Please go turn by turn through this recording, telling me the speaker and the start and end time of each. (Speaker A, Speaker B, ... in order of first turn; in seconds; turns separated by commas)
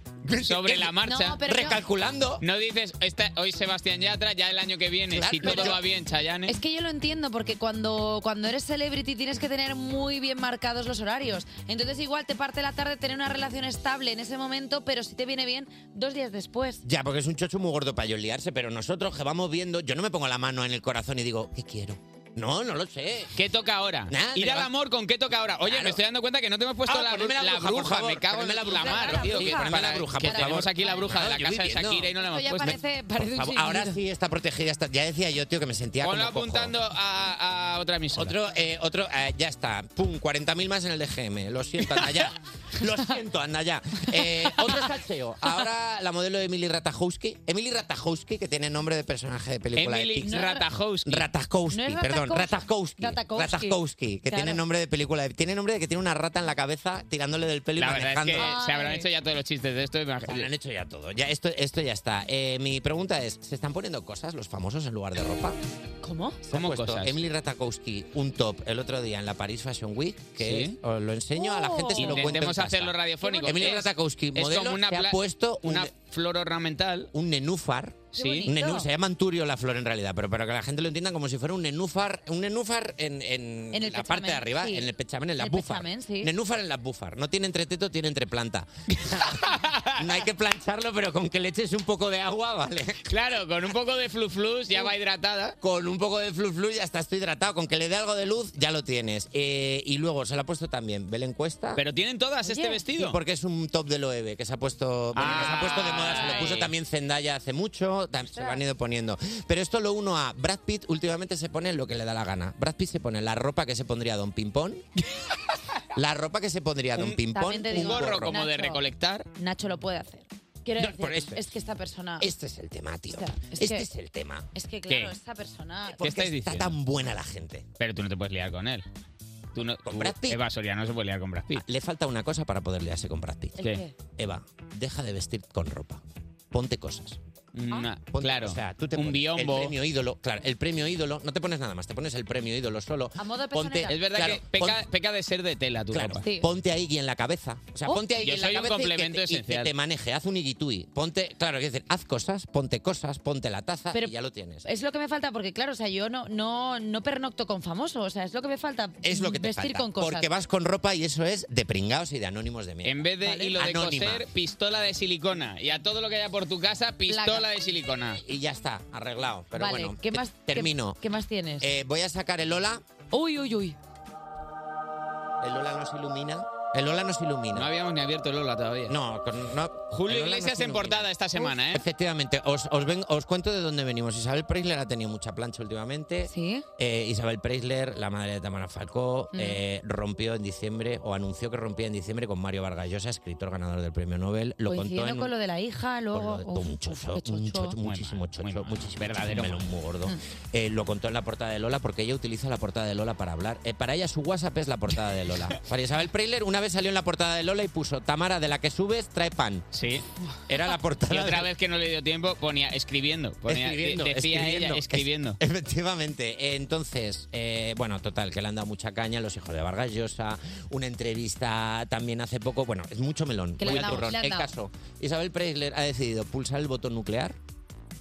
Speaker A: 0.2-2.4, Speaker B: 0.4-1.4, Speaker C: 1.0-1.8, Speaker B: 2.4-6.5, Speaker A: 5.1-5.8, Speaker C: 5.4-5.7, Speaker C: 6.5-16.8, Speaker A: 16.9-23.4, Speaker B: 23.4-32.8, Speaker A: 24.1-24.7, Speaker A: 25.6-26.0, Speaker A: 26.9-32.1, Speaker C: 28.6-31.2, Speaker C: 32.2-34.0, Speaker A: 33.2-36.8, Speaker B: 36.0-38.4, Speaker A: 38.1-50.5, Speaker B: 49.7-51.3, Speaker C: 50.2-50.6, Speaker A: 51.0-58.5, Speaker C: 51.7-54.6, Speaker B: 57.8-60.5, Speaker C: 58.4-59.1, Speaker A: 60.3-65.6, Speaker C: 66.0-66.4, Speaker A: 66.4-75.9, Speaker B: 66.5-67.2, Speaker B: 70.4-70.8, Speaker C: 71.4-72.4, Speaker B: 72.0-77.1, Speaker C: 73.2-73.9, Speaker A: 77.1-93.1, Speaker B: 78.1-78.5, Speaker C: 78.1-78.9, Speaker C: 83.7-86.3, Speaker B: 89.5-90.0, Speaker B: 93.1-95.6, Speaker A: 95.6-101.8, Speaker B: 101.8-103.2, Speaker C: 102.5-102.8, Speaker A: 102.9-114.8, Speaker B: 105.1-106.7, Speaker C: 105.2-106.6, Speaker C: 108.3-108.6, Speaker A: 116.0-118.3, Speaker B: 117.0-119.3, Speaker C: 117.3-118.8, Speaker C: 119.4-122.3, Speaker A: 120.8-121.5, Speaker A: 122.2-124.5, Speaker C: 123.1-123.9, Speaker C: 124.5-126.0, Speaker B: 124.9-125.2, Speaker A: 126.0-127.7, Speaker B: 126.0-126.8, Speaker B: 127.8-128.9, Speaker B: 129.5-131.6, Speaker A: 129.8-130.4, Speaker A: 131.5-137.2, Speaker C: 133.6-133.9, Speaker B: 137.6-139.8, Speaker A: 138.0-144.8, Speaker C: 143.2-144.0, Speaker B: 143.9-146.2, Speaker A: 145.9-154.7, Speaker C: 146.2-146.5, Speaker C: 147.9-148.2, Speaker B: 148.2-149.7, Speaker C: 154.7-160.3, Speaker A: 159.0-163.1, Speaker B: 162.8-168.2, Speaker C: 163.2-163.6, Speaker A: 163.6-164.3, Speaker C: 167.1-167.5, Speaker A: 168.2-171.0, Speaker C: 169.6-171.7, Speaker A: 171.6-172.8, Speaker C: 173.1-173.8, Speaker A: 175.4-177.7, Speaker B: 177.5-179.0, Speaker A: 178.9-181.1, Speaker B: 179.9-181.9, Speaker A: 181.7-195.3, Speaker C: 186.2-186.7, Speaker C: 189.3-189.6, Speaker C: 194.7-197.8, Speaker A: 196.1-209.7, Speaker B: 197.8-199.7, Speaker B: 209.7-210.1, Speaker A: 210.5-211.5, Speaker B: 211.1-215.4, Speaker A: 213.5-227.4, Speaker C: 223.6-224.5, Speaker B: 223.7-224.1